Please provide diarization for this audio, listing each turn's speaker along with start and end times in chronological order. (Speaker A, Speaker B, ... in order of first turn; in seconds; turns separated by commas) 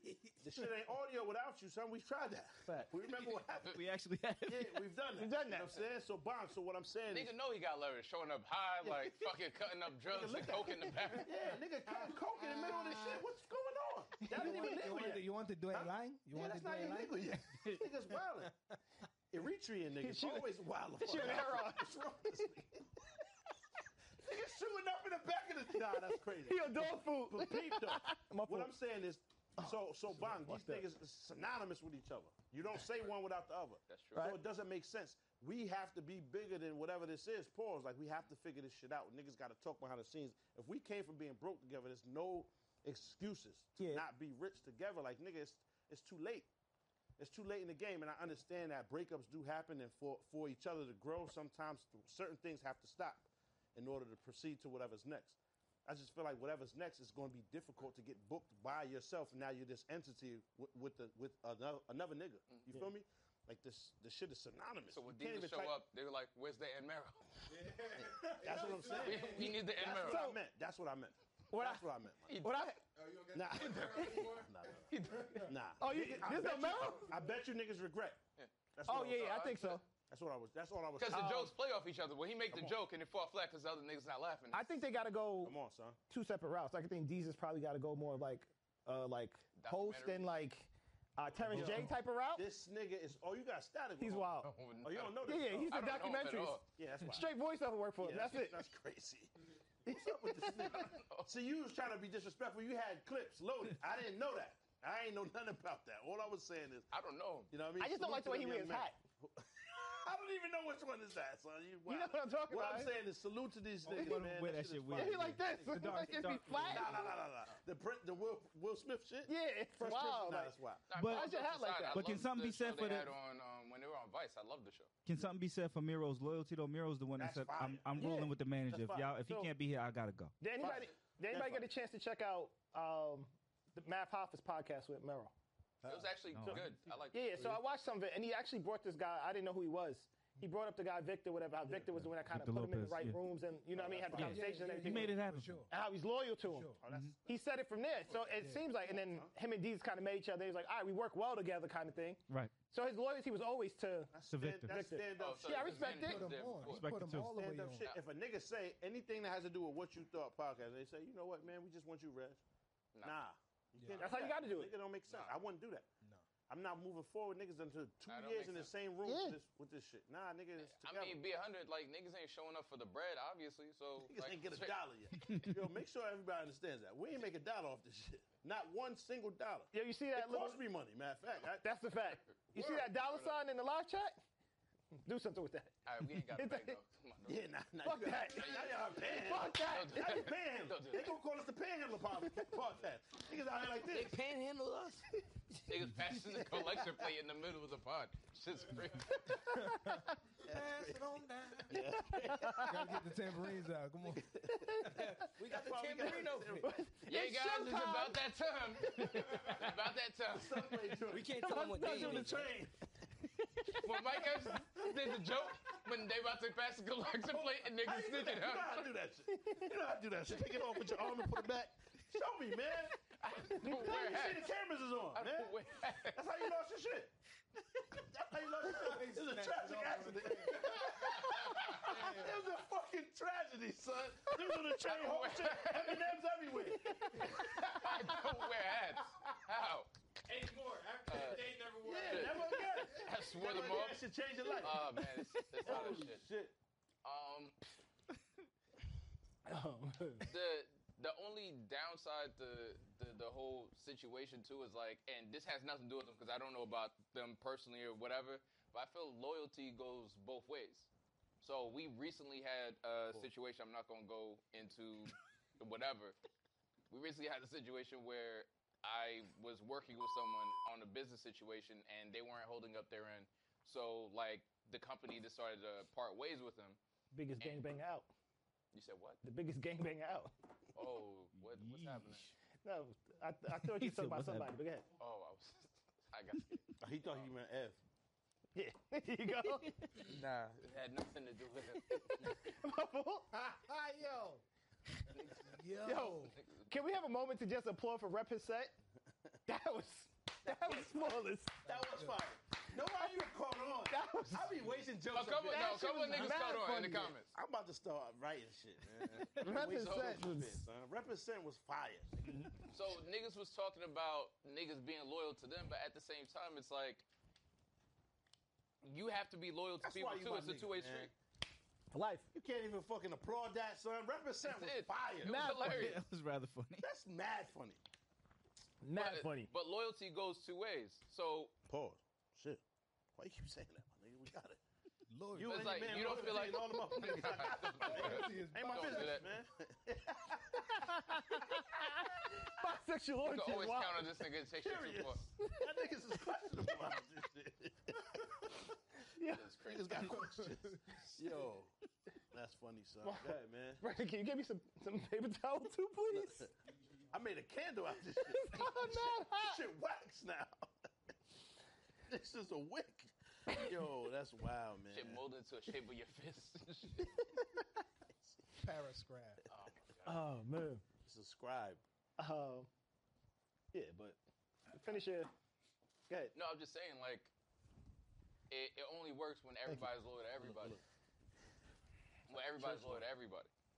Speaker A: 0.4-3.8, Speaker B: 3.6-4.9, Speaker A: 4.5-7.3, Speaker C: 5.2-5.8, Speaker D: 7.1-11.3, Speaker A: 8.8-9.2, Speaker A: 10.1-18.5, Speaker E: 12.5-13.2, Speaker C: 14.2-14.8, Speaker E: 14.3-17.6, Speaker A: 19.3-22.9, Speaker C: 20.0-22.0, Speaker A: 24.2-46.5, Speaker C: 26.4-28.7, Speaker C: 29.6-30.9, Speaker D: 33.9-34.3, Speaker C: 34.1-34.4, Speaker C: 43.8-44.0, Speaker A: 47.2-65.8, Speaker D: 64.9-67.2, Speaker F: 67.5-69.6, Speaker A: 68.0-72.4, Speaker D: 68.9-70.2, Speaker C: 69.9-70.4, Speaker C: 71.5-72.8, Speaker D: 72.2-72.7, Speaker F: 72.9-74.7, Speaker A: 73.3-78.2, Speaker C: 73.6-74.3, Speaker D: 74.9-75.5, Speaker C: 75.8-77.2, Speaker A: 78.7-79.6, Speaker C: 78.8-79.8, Speaker D: 79.1-79.8, Speaker A: 80.1-81.4, Speaker D: 81.0-84.8, Speaker C: 81.1-81.5, Speaker C: 84.5-85.5, Speaker A: 85.4-86.0, Speaker C: 86.1-92.4, Speaker D: 89.5-90.3, Speaker A: 91.5-94.3, Speaker E: 91.5-92.0, Speaker C: 94.0-94.5, Speaker D: 94.4-96.6, Speaker A: 94.8-95.7, Speaker C: 95.2-98.6, Speaker A: 96.8-97.3, Speaker A: 98.0-99.3, Speaker C: 99.8-101.0, Speaker A: 99.8-106.9, Speaker D: 100.8-101.3, Speaker D: 106.9-107.5, Speaker A: 107.5-120.8, Speaker C: 107.8-109.0, Speaker C: 111.8-112.9, Speaker B: 113.8-117.0, Speaker C: 113.9-114.2, Speaker C: 114.9-117.1, Speaker C: 119.3-120.5, Speaker D: 120.9-124.9, Speaker B: 120.9-121.3, Speaker C: 121.0-122.0, Speaker B: 121.9-123.1, Speaker B: 125.0-130.3, Speaker A: 127.2-129.1, Speaker C: 128.0-128.3, Speaker C: 129.2-129.5, Speaker C: 130.4-135.3, Speaker A: 130.6-131.7, Speaker A: 135.8-136.1, Speaker D: 135.8-137.6, Speaker B: 136.3-136.7, Speaker C: 136.5-145.2, Speaker B: 142.1-143.2, Speaker A: 143.7-144.6, Speaker B: 144.1-145.7, Speaker E: 144.1-145.7, Speaker C: 145.7-146.7, Speaker E: 146.4-146.8, Speaker A: 146.8-147.4, Speaker B: 146.9-147.1, Speaker C: 147.2-156.2, Speaker A: 148.1-149.3, Speaker E: 148.4-148.7, Speaker B: 152.3-152.5, Speaker A: 154.1-155.9, Speaker B: 154.3-154.8, Speaker D: 155.2-156.9, Speaker E: 155.9-157.9, Speaker B: 156.6-157.3, Speaker A: 157.3-162.4, Speaker A: 163.0-165.9, Speaker E: 163.8-164.2, Speaker C: 164.0-164.7, Speaker D: 165.1-165.4, Speaker E: 166.0-166.2, Speaker A: 166.5-171.2, Speaker D: 168.1-168.7, Speaker C: 169.0-169.4, Speaker D: 170.6-174.8, Speaker A: 174.0-181.7, Speaker C: 179.7-180.6, Speaker C: 181.6-184.1, Speaker A: 182.5-182.9, Speaker D: 182.7-183.3, Speaker C: 185.0-186.8, Speaker D: 185.8-187.5, Speaker A: 187.2-194.2, Speaker C: 187.8-190.2, Speaker D: 188.3-191.2, Speaker G: 193.9-195.1, Speaker D: 195.7-199.4, Speaker C: 199.5-200.2, Speaker E: 199.6-201.7, Speaker A: 200.4-201.1, Speaker A: 201.7-203.0, Speaker C: 201.9-202.9, Speaker E: 202.7-204.2, Speaker A: 204.1-206.8, Speaker C: 204.5-205.2, Speaker G: 205.3-206.6, Speaker C: 206.5-208.2, Speaker D: 207.1-211.0, Speaker C: 208.8-209.6, Speaker A: 210.3-212.7, Speaker G: 211.1-212.5, Speaker C: 211.4-212.4, Speaker C: 213.4-214.3, Speaker D: 213.8-218.9, Speaker A: 217.8-223.0, Speaker C: 219.3-219.7, Speaker D: 223.2-224.5, Speaker C: 223.6-223.9, Speaker A: 223.6-225.6, Speaker D: 225.1-226.2, Speaker A: 226.1-227.1, Speaker A: 227.9-237.7, Speaker E: 228.7-230.7, Speaker F: 230.7-232.4, Speaker D: 234.8-236.1, Speaker C: 236.6-238.1, Speaker D: 237.4-239.9, Speaker F: 240.3-243.1, Speaker D: 241.1-244.1, Speaker A: 241.8-245.0, Speaker D: 244.6-246.2, Speaker A: 245.6-246.5, Speaker D: 247.0-247.6, Speaker C: 249.4-250.3, Speaker D: 250.2-260.9, Speaker D: 261.4-266.1, Speaker D: 266.9-276.8, Speaker C: 277.1-278.1, Speaker D: 277.4-277.6, Speaker D: 278.7-279.2, Speaker C: 279.2-280.3, Speaker D: 280.7-282.3, Speaker B: 281.4-282.3, Speaker C: 282.6-284.9, Speaker B: 283.6-284.5, Speaker D: 285.0-287.3, Speaker A: 286.8-287.8, Speaker C: 288.5-290.0, Speaker D: 289.9-292.3, Speaker C: 291.8-293.3, Speaker E: 293.3-294.4, Speaker D: 295.1-295.4, Speaker E: 295.4-296.4, Speaker C: 295.8-298.7, Speaker D: 296.3-296.7, Speaker C: 299.5-301.6, Speaker A: 301.6-306.3, Speaker E: 301.7-302.2, Speaker C: 303.9-304.6, Speaker D: 305.1-307.3, Speaker C: 305.5-307.1, Speaker A: 307.3-312.6, Speaker D: 309.1-310.2, Speaker C: 309.4-310.6, Speaker D: 312.7-317.1, Speaker D: 318.8-321.1, Speaker A: 319.8-321.1, Speaker C: 321.9-322.3, Speaker A: 322.3-325.5, Speaker D: 324.4-326.0, Speaker C: 325.2-325.9, Speaker B: 325.6-326.9, Speaker A: 326.8-327.8, Speaker C: 328.8-329.5, Speaker D: 328.9-331.5, Speaker A: 331.7-332.6, Speaker A: 333.2-334.6, Speaker E: 335.1-335.9, Speaker A: 335.3-340.9, Speaker D: 335.4-339.3, Speaker E: 337.8-339.4, Speaker C: 340.7-344.2, Speaker D: 343.2-345.2, Speaker A: 344.6-348.7, Speaker C: 345.4-346.8, Speaker C: 349.1-349.5, Speaker D: 349.3-350.3, Speaker A: 349.6-351.7, Speaker A: 352.3-353.8, Speaker C: 353.0-356.5, Speaker A: 356.1-356.5, Speaker A: 357.1-360.7, Speaker C: 358.2-359.6, Speaker A: 362.1-365.2, Speaker D: 364.9-367.1, Speaker E: 368.6-369.4, Speaker D: 369.5-370.2, Speaker C: 370.0-370.8, Speaker A: 371.0-371.8, Speaker C: 372.2-372.7, Speaker C: 373.7-374.2, Speaker C: 374.7-375.3, Speaker D: 376.3-377.3, Speaker D: 378.5-380.8, Speaker A: 380.4-380.8, Speaker D: 382.3-383.5, Speaker A: 382.3-383.1